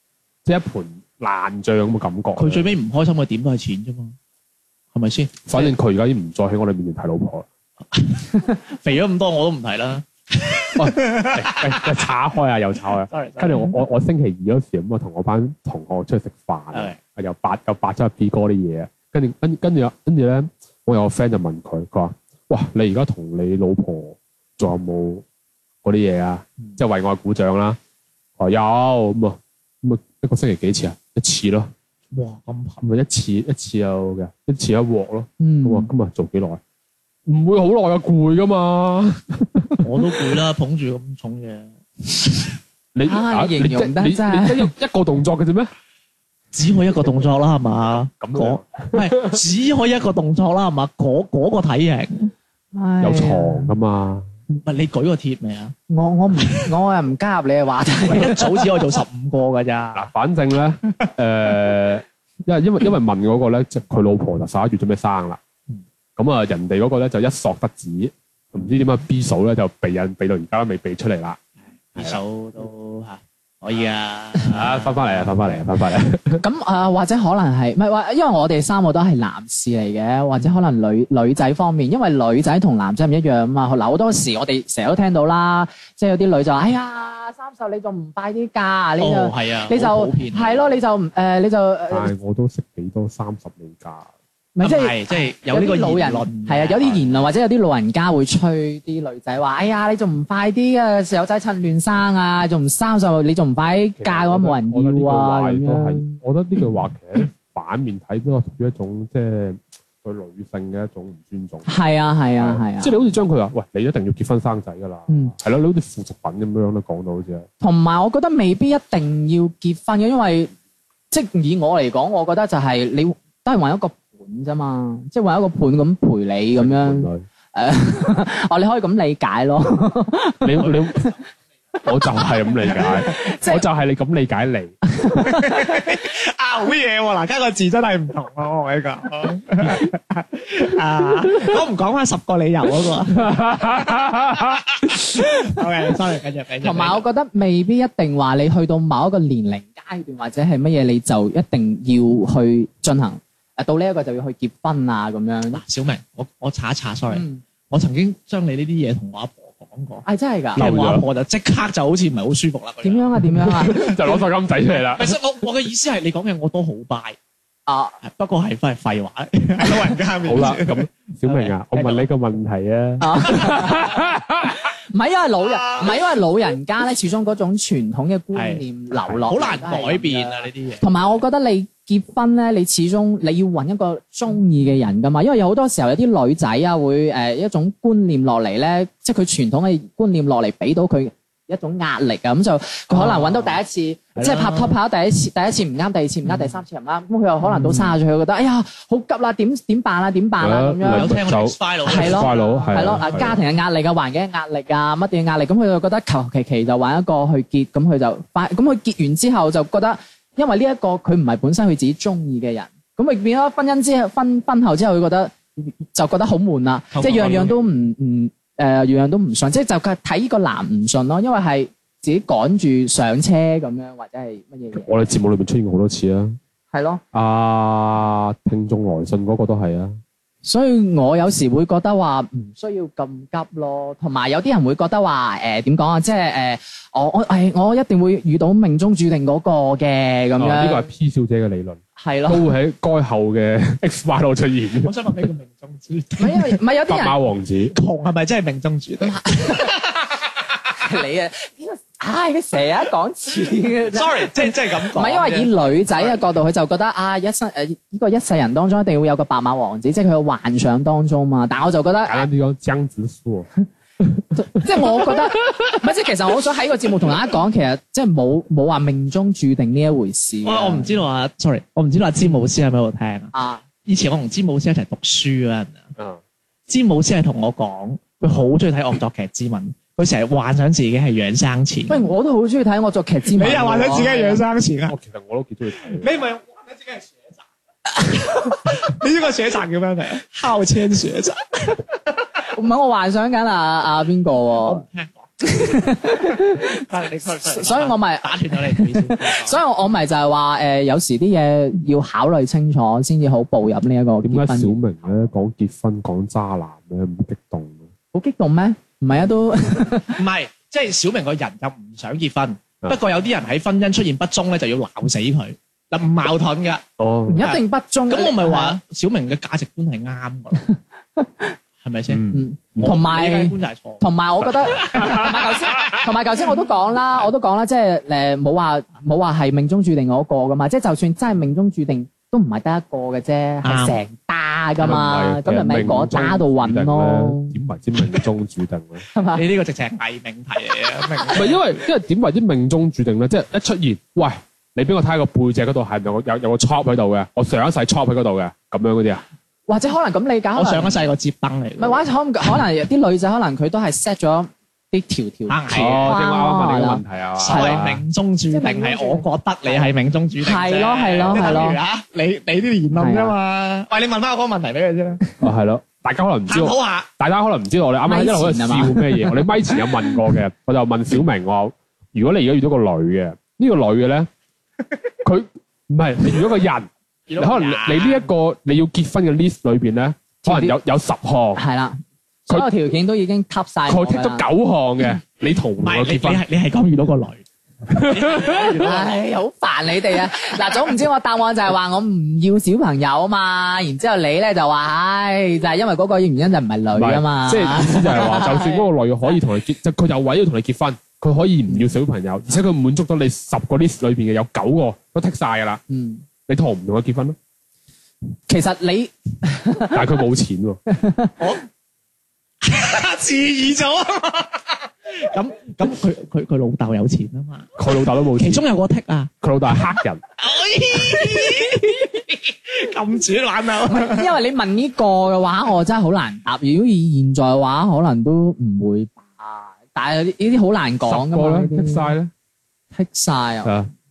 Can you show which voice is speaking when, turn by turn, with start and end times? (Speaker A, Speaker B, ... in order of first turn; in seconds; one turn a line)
Speaker A: 0.5-2.8
Speaker B: 2.4-4.2
Speaker B: 4.9-5.7
Speaker A: 5.5-7.5
Speaker B: 7.9-12.0
Speaker A: 10.8-25.2
Speaker B: 13.1-13.8
Speaker B: 16.7-17.0
Speaker A: 25.8-27.8
Speaker A: 28.4-31.7
Speaker B: 32.1-32.8
Speaker A: 32.8-36.6
Speaker C: 35.4-35.9
Speaker A: 37.3-40.2
Speaker B: 39.8-41.7
Speaker A: 42.9-45.7
Speaker C: 43.1-44.7
Speaker B: 46.5-52.3
Speaker A: 48.2-49.1
Speaker C: 52.8-53.7
Speaker A: 53.0-54.3
Speaker B: 54.6-55.8
Speaker C: 55.9-58.7
Speaker B: 56.4-56.6
Speaker B: 58.0-60.1
Speaker A: 59.9-65.4
Speaker A: 66.2-71.4
Speaker B: 72.0-75.6
Speaker A: 72.0-72.2
Speaker A: 74.5-76.4
Speaker C: 76.4-92.1
Speaker B: 89.0-90.6
Speaker A: 91.9-94.1
Speaker C: 94.6-106.2
Speaker B: 94.6-97.2
Speaker A: 104.0-111.7
Speaker C: 111.7-113.0
Speaker A: 112.4-117.5
Speaker C: 115.1-115.3
Speaker C: 117.6-120.5
Speaker C: 121.1-131.1
Speaker A: 126.6-127.2
Speaker A: 130.4-131.1
Speaker A: 131.8-134.8
Speaker C: 132.6-133.6
Speaker C: 134.9-136.0
Speaker B: 135.2-143.4
Speaker A: 143.2-145.2
Speaker B: 144.4-147.0
Speaker C: 146.6-155.6
Speaker B: 155.5-163.8
Speaker C: 157.1-157.4
Speaker C: 160.1-160.7
Speaker A: 160.6-161.1
Speaker C: 162.8-164.2
Speaker A: 163.4-165.2
Speaker B: 164.9-167.2
Speaker C: 167.7-168.0
Speaker B: 168.0-172.1
Speaker A: 170.2-174.7
Speaker C: 173.0-174.0
Speaker C: 174.9-201.1
Speaker B: 175.5-175.9
Speaker B: 178.3-178.6
Speaker A: 179.0-179.3
Speaker B: 179.3-180.9
Speaker B: 192.9-193.6
Speaker B: 194.2-194.8
Speaker B: 197.4-197.9
Speaker A: 200.4-203.4
Speaker B: 200.9-203.3
Speaker C: 201.9-225.0
Speaker B: 216.9-217.6
Speaker A: 224.7-226.4
Speaker C: 226.7-227.0
Speaker A: 227.1-230.0
Speaker C: 230.4-240.9
Speaker A: 240.4-245.0
Speaker C: 242.0-242.5
Speaker B: 244.8-246.6
Speaker C: 246.2-247.2
Speaker A: 246.9-247.8
Speaker B: 247.7-249.7
Speaker C: 249.0-249.8
Speaker C: 250.8-262.3
Speaker B: 253.9-256.2
Speaker A: 262.1-263.5
Speaker A: 264.0-265.1
Speaker C: 264.3-270.9
Speaker B: 270.4-273.3
Speaker C: 273.3-273.6
Speaker B: 273.9-275.9
Speaker B: 276.7-282.1
Speaker C: 281.9-284.4
Speaker B: 283.3-285.0
Speaker A: 284.9-286.1
Speaker B: 285.8-287.3
Speaker B: 288.0-291.9
Speaker C: 292.5-294.8
Speaker B: 294.6-295.3
Speaker C: 295.4-296.9
Speaker B: 296.7-299.6
Speaker C: 297.4-304.8
Speaker A: 304.2-307.9
Speaker C: 308.1-310.2
Speaker B: 310.1-316.9
Speaker A: 317.0-317.4
Speaker C: 317.3-318.8
Speaker B: 317.4-320.6
Speaker C: 321.2-321.6
Speaker B: 321.8-322.2
Speaker A: 322.1-322.9
Speaker C: 322.3-337.6
Speaker B: 322.8-324.0
Speaker A: 324.6-325.9
Speaker B: 324.6-325.9
Speaker B: 333.6-334.0
Speaker A: 334.8-339.0
Speaker C: 339.1-339.4
Speaker B: 339.3-341.8
Speaker A: 341.3-349.2
Speaker C: 349.7-351.1
Speaker B: 350.6-352.0
Speaker C: 351.8-357.9
Speaker B: 355.5-356.1
Speaker A: 355.7-358.0
Speaker B: 357.4-365.2
Speaker C: 358.5-361.8
Speaker A: 361.2-361.5
Speaker C: 363.0-363.4
Speaker A: 365.4-374.3
Speaker B: 366.5-367.1
Speaker C: 368.1-370.2
Speaker A: 375.2-381.6
Speaker B: 377.3-378.3
Speaker C: 380.4-380.8
Speaker C: 381.6-384.4
Speaker A: 383.9-386.4
Speaker B: 385.8-387.4
Speaker A: 387.9-388.9
Speaker B: 387.9-389.2
Speaker C: 388.7-398.9
Speaker A: 396.9-405.8
Speaker C: 405.9-406.2
Speaker A: 406.5-407.4
Speaker C: 408.5-410.0
Speaker A: 409.9-410.8
Speaker C: 410.9-411.4
Speaker B: 412.6-417.8
Speaker A: 417.8-418.7
Speaker B: 418.3-419.3
Speaker A: 419.4-420.2
Speaker B: 420.4-424.3
Speaker C: 423.9-432.1
Speaker A: 431.1-432.3
Speaker C: 432.9-433.8
Speaker A: 433.6-433.9